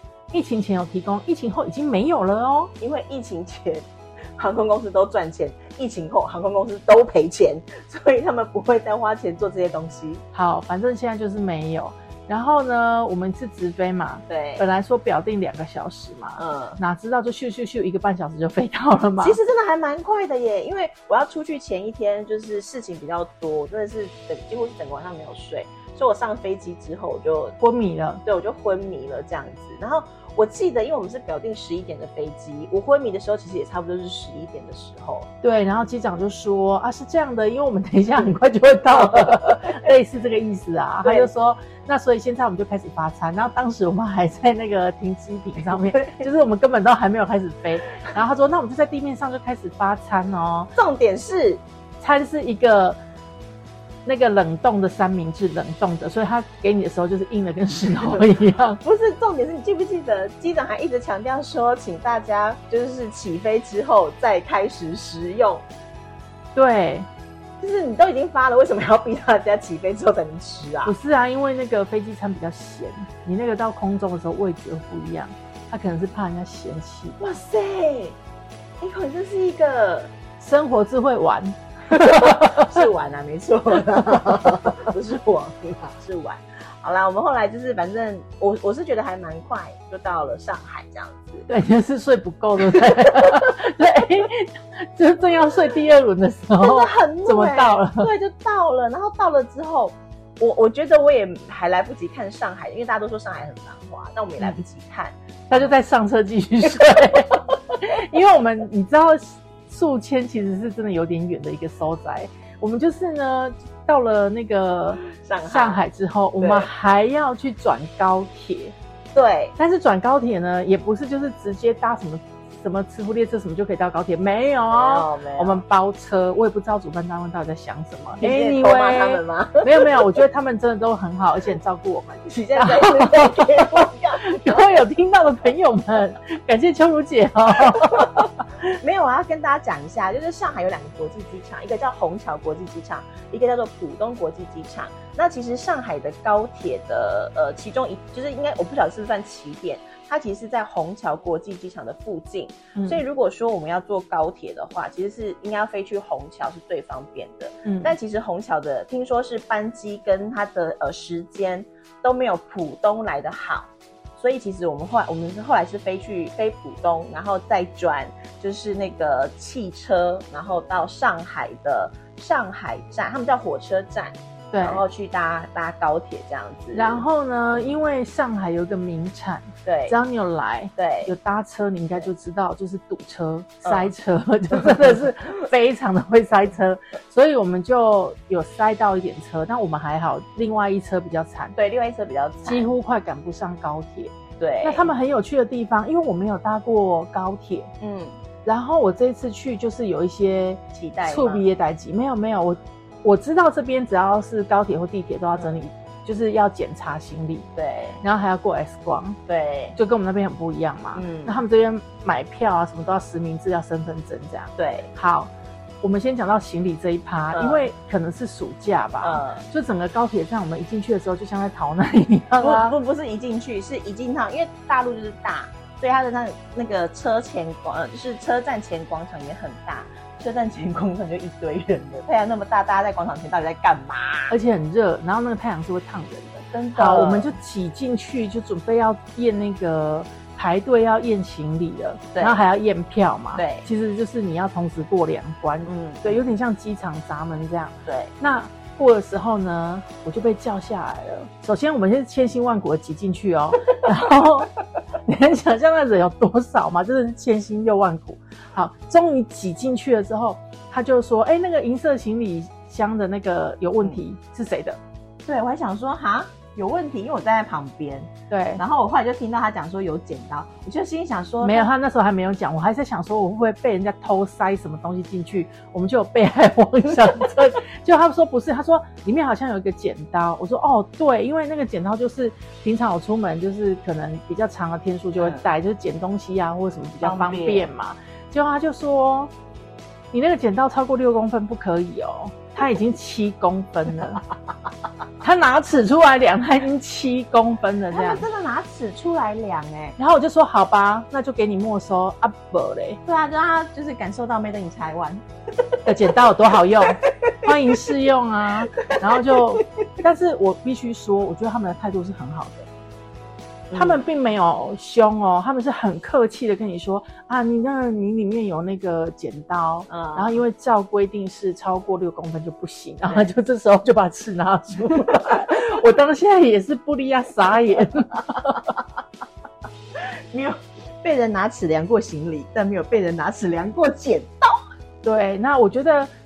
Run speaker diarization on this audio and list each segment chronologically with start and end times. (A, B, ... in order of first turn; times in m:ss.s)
0:00.3-0:02.7 A
0:02.8-0:10.2 B
0:10.3-0:19.4 A
0:14.3-0:14.6 B
0:16.4-0:16.8 B
0:19.2-0:27.6 B
0:27.6-0:28.2 A
0:28.2-0:35.3 B
0:35.4-0:50.7 A
0:38.9-0:39.9 B
0:41.0-0:41.3 B
0:45.6-0:46.2 B
0:50.8-0:51.6 B
0:52.0-0:53.0 A
0:54.0-0:58.8 A
0:58.0-0:58.3 B
0:58.8-1:05.7 B
1:06.6-1:07.1 A
1:07.6-1:11.0 B
1:10.9-1:17.2 A
1:17.2-1:18.2 B
1:18.8-1:20.1 B
1:20.4-1:22.7 A
1:21.9-1:31.5 B
1:31.5-1:38.1 A
1:32.8-1:33.4 B
1:36.6-1:45.7 B
1:45.5-1:58.8 A
1:55.2-1:55.8 B
1:56.4-1:56.7 B
1:59.1-1:59.6 B
1:59.6-2:18.3 A
2:04.7-2:05.6 B
2:08.2-2:10.1 B
2:12.3-2:14.8 B
2:17.7-2:57.7 B
2:32.8-2:33.0 A
2:37.6-2:37.9 A
2:54.5-2:54.8 A
2:56.7-3:11.6 A
2:59.6-3:00.0 B
3:00.8-3:01.1 B
3:03.6-3:03.9 B
3:04.5-3:05.0 B
3:11.6-3:12.7 B
3:12.5-3:17.7 A
3:14.4-3:14.9 B
3:17.8-3:18.2 B
3:18.4-3:27.5 A
3:20.7-3:21.5 B
3:25.4-3:25.6 B
3:27.6-3:28.0 B
3:28.0-3:29.2 A
3:29.3-3:29.8 B
3:29.8-3:42.8 A
3:31.0-3:31.4 B
3:34.6-3:34.9 B
3:37.3-3:37.7 B
3:39.0-3:39.4 B
3:42.4-3:54.4 B
3:54.3-4:14.5 A
3:56.5-3:57.4 B
4:02.1-4:02.4 B
4:03.4-4:03.7 B
4:05.6-4:06.2 B
4:07.9-4:08.1 B
4:15.1-4:24.8 A
4:25.3-4:31.7 B
4:28.3-4:28.6 A
4:31.4-4:49.3 A
4:47.0-4:47.7 B
4:50.1-4:54.2 A
4:55.2-4:58.3 A
4:57.9-5:00.0 B
5:00.0-5:03.0 A
5:03.1-5:05.2 B
5:05.9-5:12.7 A
5:07.0-5:07.8 B
5:09.0-5:09.7 B
5:13.7-5:14.0 B
5:13.8-5:28.7 A
5:19.9-5:20.4 B
5:30.0-5:34.6 B
5:35.0-5:36.1 A